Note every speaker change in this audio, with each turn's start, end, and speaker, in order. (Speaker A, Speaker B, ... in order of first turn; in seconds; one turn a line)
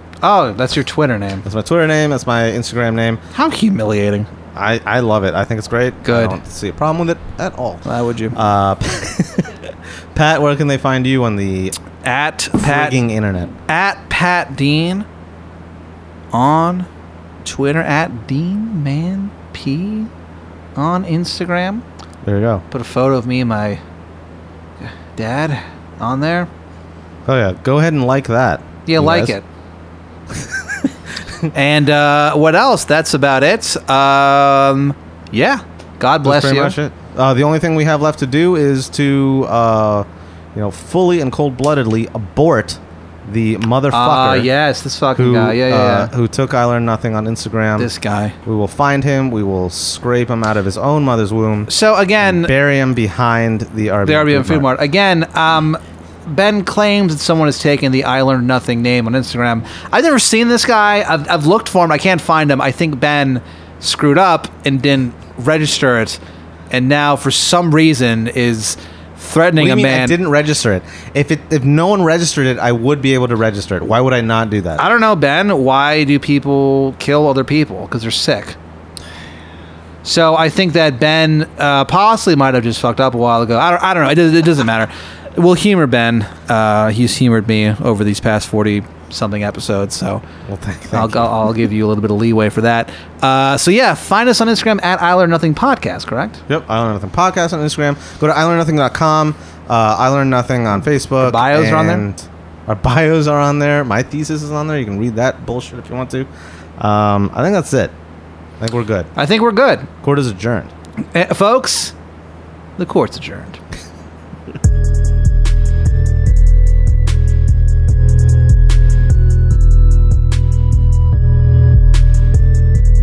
Speaker A: 0.2-1.4
Speaker B: 1.4-3.2
Speaker A: 3.3-4.3
Speaker B: 4.5-11.7
Speaker A: 6.0-6.4
Speaker A: 7.8-8.3
Speaker A: 12.0-13.0
Speaker B: 12.6-13.5
Speaker A: 13.7-15.0
Speaker A: 16.3-16.9
Speaker A: 17.4-20.1
Speaker A: 20.8-21.8
Speaker B: 22.2-22.6
Speaker A: 22.7-23.8
Speaker A: 24.8-26.5
Speaker B: 27.2-29.3
Speaker A: 28.9-29.4
Speaker B: 30.3-30.9
Speaker A: 31.5-36.8
Speaker B: 36.2-44.5
Speaker A: 43.9-46.1
Speaker B: 45.1-47.9
Speaker A: 47.8-48.4
Speaker B: 48.5-51.7
Speaker A: 51.7-52.5
Speaker B: 52.2-54.7
Speaker A: 54.0-66.2
Speaker A: 66.7-70.2
Speaker B: 69.5-74.8
Speaker A: 74.8-78.6
Speaker A: 80.0-90.2
Speaker B: 90.5-91.3
Speaker A: 90.9-96.4
Speaker B: 96.5-107.9
Speaker A: 101.2-102.0
Speaker B: 108.6-109.1
Speaker A: 109.2-109.9
Speaker B: 110.0-110.7
Speaker A: 111.1-111.9
Speaker A: 112.8-113.6